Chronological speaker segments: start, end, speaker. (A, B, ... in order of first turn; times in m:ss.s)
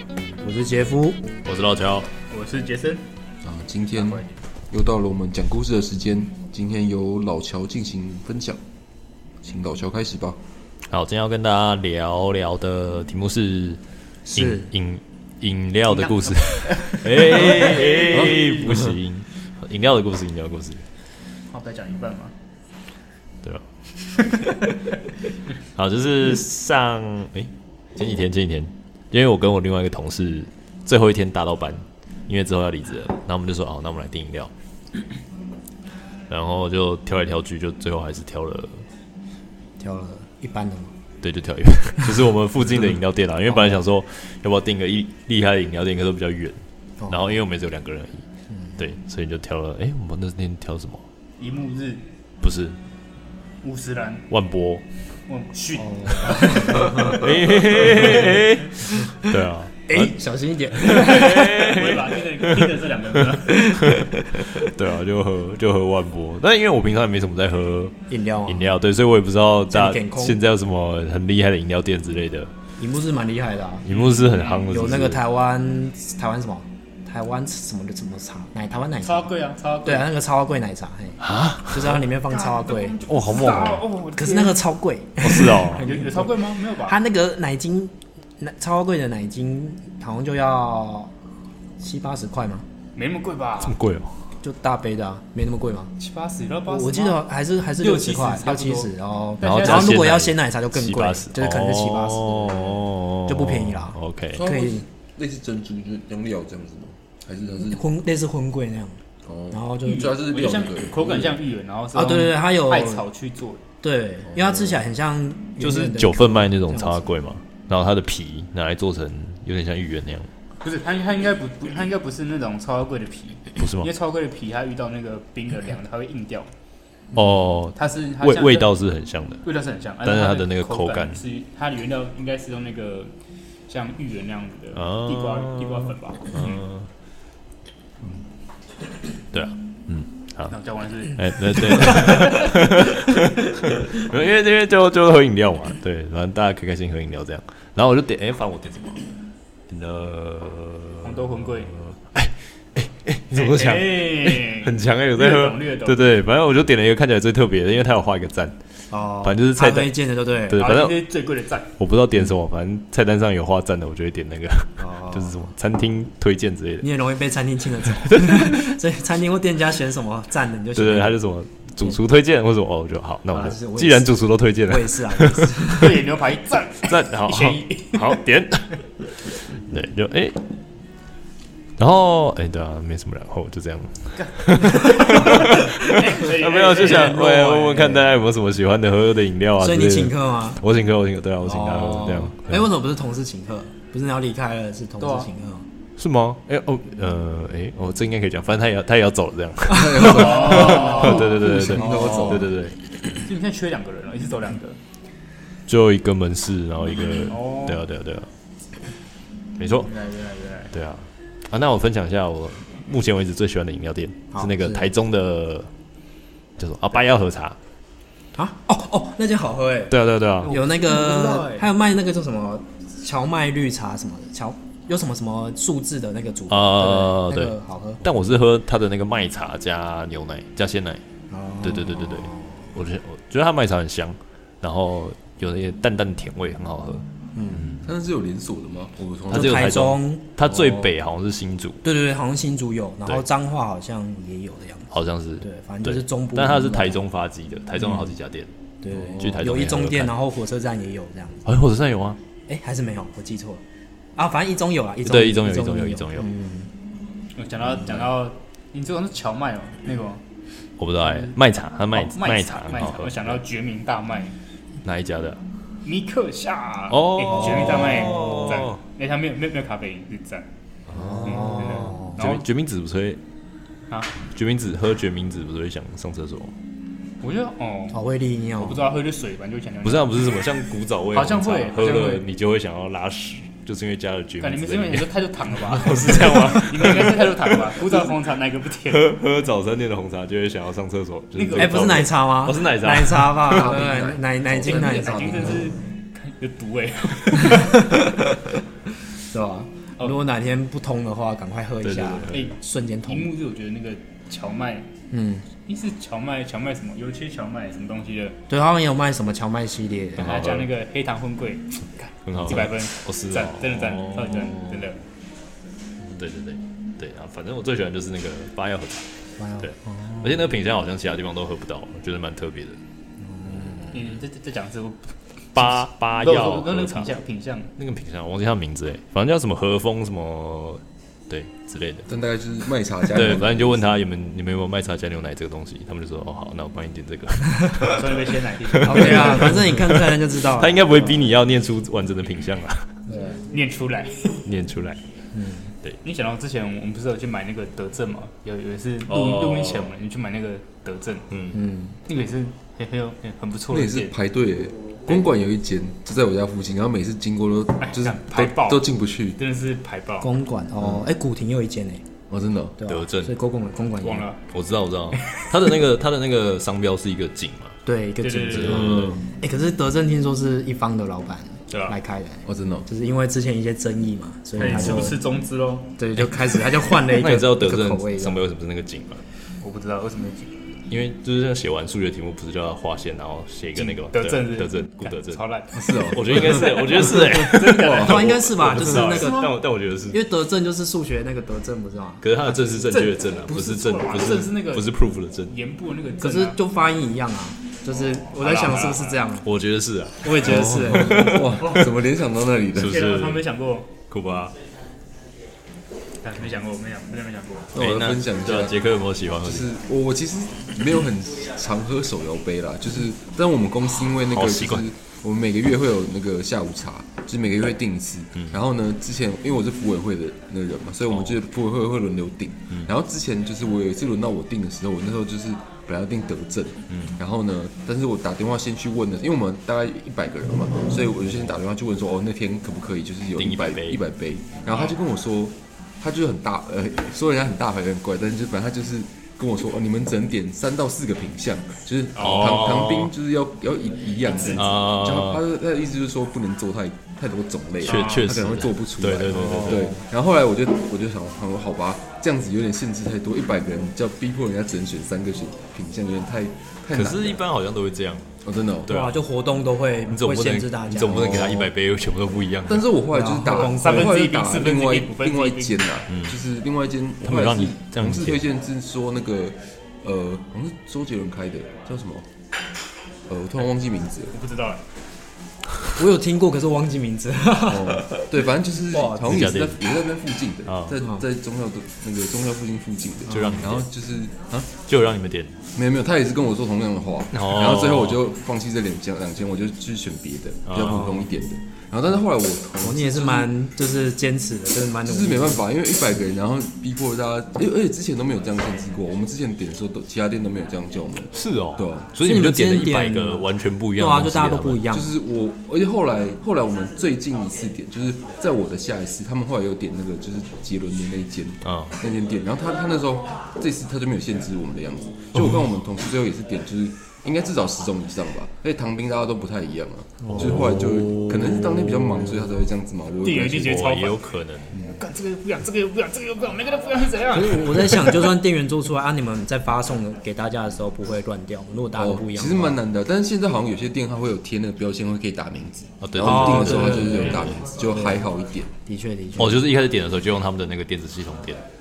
0:00.4-0:01.2 A
0:01.4-0:02.1 B
0:02.2-0:03.0 C
0:03.4-0:08.6 D
0:04.0-0:04.4 C
0:09.4-0:10.4 D
0:10.9-0:13.8 B
0:14.3-0:14.7 A
0:14.3-0:20.8 B
0:15.9-0:18.9 C
0:21.5-0:22.3 C
0:24.0-0:25.0 C
0:25.8-0:34.5 B
0:36.3-0:38.8 B
0:39.8-0:40.9 A
0:41.2-0:48.2 B
0:43.5-0:43.8 A
0:47.0-0:47.4 A
0:48.5-0:48.8 A
0:48.8-0:51.0 B
0:51.4-0:52.0 C
0:52.4-0:52.8 B
0:53.6-0:54.3 C
0:54.3-0:54.8 B
0:55.3-0:57.3 C
0:55.8-0:57.3 A
0:56.8-1:00.1 B
0:57.8-0:58.4 A
0:59.0-0:59.2 A
0:59.9-1:01.6 A
1:00.7-1:08.0 B
1:00.8-1:03.6 C
1:03.6-1:04.7 A
1:08.1-1:08.7 A
1:08.5-1:12.5 B
1:09.7-1:10.4 A
1:12.8-1:13.9 A
1:13.8-1:15.2 B
1:13.9-1:14.7 C
1:14.7-1:19.3 A
1:19.0-1:20.1 C
1:19.8-1:23.0 A
1:21.2-1:22.0 B
1:22.3-1:24.6 C
1:23.1-1:23.9 B
1:24.2-1:31.1 A
1:25.2-1:25.9 B
1:25.7-1:27.0 C
1:31.8-1:32.6 A
1:33.0-1:33.8 C
1:33.6-1:34.1 B
1:34.4-1:35.9 A
1:36.0-1:37.2 C
1:36.7-1:44.8 A
1:37.8-1:40.0 C
1:39.4-1:44.4 B
1:44.3-1:47.8 D
1:47.7-1:50.1 A
1:49.2-1:51.4 D
1:49.8-1:53.6 C
1:51.9-1:53.1 A
1:53.8-1:57.1 A
1:55.6-2:00.3 B
2:00.6-2:06.5 C
2:03.6-2:03.9 B
2:07.1-2:09.4 B
2:07.8-2:08.7 C
2:09.4-2:13.1 C
2:10.0-2:11.2 B
2:13.7-2:16.6 C
2:14.8-2:16.9 B
2:19.3-2:20.6 B
2:20.5-2:23.3 C
2:21.2-2:29.0 B
2:29.7-2:31.3 B
2:31.0-2:31.8 C
2:31.9-2:38.6 B
2:33.3-2:36.2 C
2:38.9-2:40.7 A
2:39.2-2:41.1 B
2:40.6-2:41.7 C
2:41.8-2:46.9 B
2:44.8-2:45.4 A
2:46.8-2:51.2 A
2:48.0-2:48.7 B
2:50.8-2:55.5 B
2:53.3-2:56.1 A
2:55.7-2:58.2 C
2:56.8-2:58.8 B
2:59.3-3:00.4 B
3:01.8-3:12.6 B
3:04.2-3:07.2 C
3:06.8-3:08.1 A
3:09.6-3:10.6 A
3:11.4-3:15.6 A
3:15.0-3:15.3 C
3:16.0-3:22.9 B
3:19.7-3:22.5 D
3:20.0-3:21.5 C
3:21.8-3:22.4 A
3:23.1-3:24.8 C
3:25.7-3:28.3 B
3:27.3-3:27.8 C
3:29.6-3:29.9 B
3:29.8-3:30.7 C
3:30.7-3:35.7 B
3:34.3-3:34.9 A
3:36.6-3:37.6 B
3:38.4-3:40.0 A
3:39.9-3:40.6 B
3:40.4-3:41.7 C
3:40.5-3:48.0 A
3:46.5-3:51.0 B
3:51.3-3:52.6 A
3:51.6-3:57.8 B
3:57.4-3:57.7 A
3:57.8-3:59.6 D
3:59.3-4:01.8 B
3:59.3-4:00.6 A
4:01.8-4:07.0 A
4:04.9-4:08.5 B
4:07.8-4:08.1 A
4:08.8-4:11.5 A
4:09.2-4:10.2 B
4:11.4-4:12.2 B
4:12.5-4:13.6 A
4:14.2-4:16.7 A
4:15.0-4:16.3 B
4:17.4-4:20.2 C
4:20.8-4:23.4 B
4:21.0-4:21.4 C
4:21.9-4:24.4 C
4:24.8-4:25.4 B
4:25.8-4:30.5 C
4:26.9-4:28.8 B
4:30.9-4:31.4 B
4:30.9-4:32.2 A
4:31.2-4:32.5 C
4:32.1-4:33.2 B
4:33.9-4:34.2 C
4:34.2-4:36.5 B
4:37.2-4:38.0 C
4:37.9-4:38.8 A
4:38.6-4:40.2 C
4:39.8-4:48.0 B
4:41.1-4:42.3 C
4:44.4-4:49.1 C
4:48.8-4:53.8 B
4:51.4-4:52.1 C
4:51.6-4:55.6 A
4:53.4-4:55.6 D
4:54.5-4:58.0 C
4:59.3-5:03.3 A
5:01.8-5:02.4 B
5:02.3-5:04.9 C
5:05.1-5:05.5 A
5:05.6-5:08.4 C
5:08.5-5:10.3 A
5:10.2-5:10.7 B
5:10.2-5:15.0 C
5:12.3-5:14.8 B
5:16.1-5:19.1 B
5:19.4-5:20.3 A
5:19.6-5:22.8 B
5:23.2-5:24.0 A
5:23.9-5:27.7 C
5:25.6-5:27.1 B
5:27.8-5:32.1 B
5:32.1-5:33.9 D
5:33.1-5:42.9 B
5:37.8-5:39.6 C
5:38.8-5:40.9 A
5:43.1-5:43.4 A
5:43.5-5:44.5 C
5:44.5-5:45.0 B
5:45.3-5:45.7 A
5:46.0-5:51.2 C
5:49.1-5:49.9 B
5:51.3-5:51.6 B
5:51.5-5:52.0 A
5:52.1-5:54.1 C
5:53.7-5:59.4 D
5:57.8-5:58.8 C
5:59.4-6:00.3 C
6:00.2-6:02.0 A
6:02.3-6:02.8 D
6:02.8-6:04.3 A
6:02.9-6:03.3 B
6:04.0-6:04.4 C
6:04.4-6:07.8 B
6:07.9-6:15.2 A
6:08.2-6:09.0 C
6:08.5-6:09.2 B
6:08.8-6:09.2 D
6:11.7-6:12.0 C
6:12.5-6:12.9 D
6:14.6-6:16.0 C
6:16.0-6:18.4 A
6:17.1-6:19.2 B
6:19.6-6:20.6 C
6:20.9-6:25.4 B
6:23.8-6:29.4 C
6:25.7-6:26.5 D
6:26.1-6:30.2 B
6:27.8-6:28.2 D
6:27.9-6:29.5 A
6:30.1-6:32.3 A
6:32.2-6:35.5 B
6:32.5-6:34.9 C
6:35.5-6:36.6 C
6:36.2-6:39.5 A
6:38.3-6:39.2 C
6:39.4-6:41.4 B
6:40.2-6:41.4 A
6:40.4-6:43.0 D
6:42.8-6:43.5 B
6:42.9-6:44.0 C
6:44.0-6:44.6 B
6:46.2-6:47.7 C
6:47.7-6:48.8 D
6:47.8-6:49.7 B
6:49.4-7:37.4 D
6:54.3-6:54.9 B
7:01.1-7:01.4 B
7:06.9-7:07.2 B
7:13.4-7:14.0 B
7:14.7-7:15.0 C
7:22.2-7:22.5 C
7:22.2-7:23.1 B
7:24.3-7:24.7 C
7:24.6-7:25.4 B
7:27.8-7:28.3 C
7:27.8-7:29.9 B
7:29.4-7:30.0 A
7:36.9-7:38.3 B
7:38.4-7:38.9 D
7:38.9-7:39.2 B
7:38.9-7:41.7 A
7:40.1-7:42.8 B
7:42.7-7:52.3 D
7:43.1-7:44.2 A
7:43.6-7:45.8 C
7:46.1-7:46.4 B
7:47.2-7:48.5 B
7:53.3-7:54.3 D
7:54.3-7:54.8 C
7:56.0-7:58.2 A
7:57.7-8:04.7 D
7:58.9-7:59.3 A
7:59.2-7:59.8 B
8:00.7-8:01.0 B
8:03.3-8:03.8 B
8:04.8-8:05.6 B
8:05.8-8:13.5 D
8:07.3-8:08.2 B
8:10.7-8:11.2 B
8:12.8-8:15.6 A
8:15.0-8:22.1 D
8:21.3-8:24.8 B
8:22.2-8:23.4 A
8:24.0-8:25.1 A
8:24.9-8:43.8 D
8:31.6-8:32.0 B
8:40.2-8:40.7 A
8:40.3-8:41.3 B
8:43.2-8:44.2 C
8:43.6-8:44.8 B
8:44.7-8:45.0 D
8:45.0-8:48.4 C
8:47.3-8:52.8 A
8:52.0-8:58.7 D
8:56.0-8:57.6 B
8:56.2-8:58.3 A
8:56.6-8:57.3 C
8:58.9-8:59.6 A
8:59.4-9:01.6 B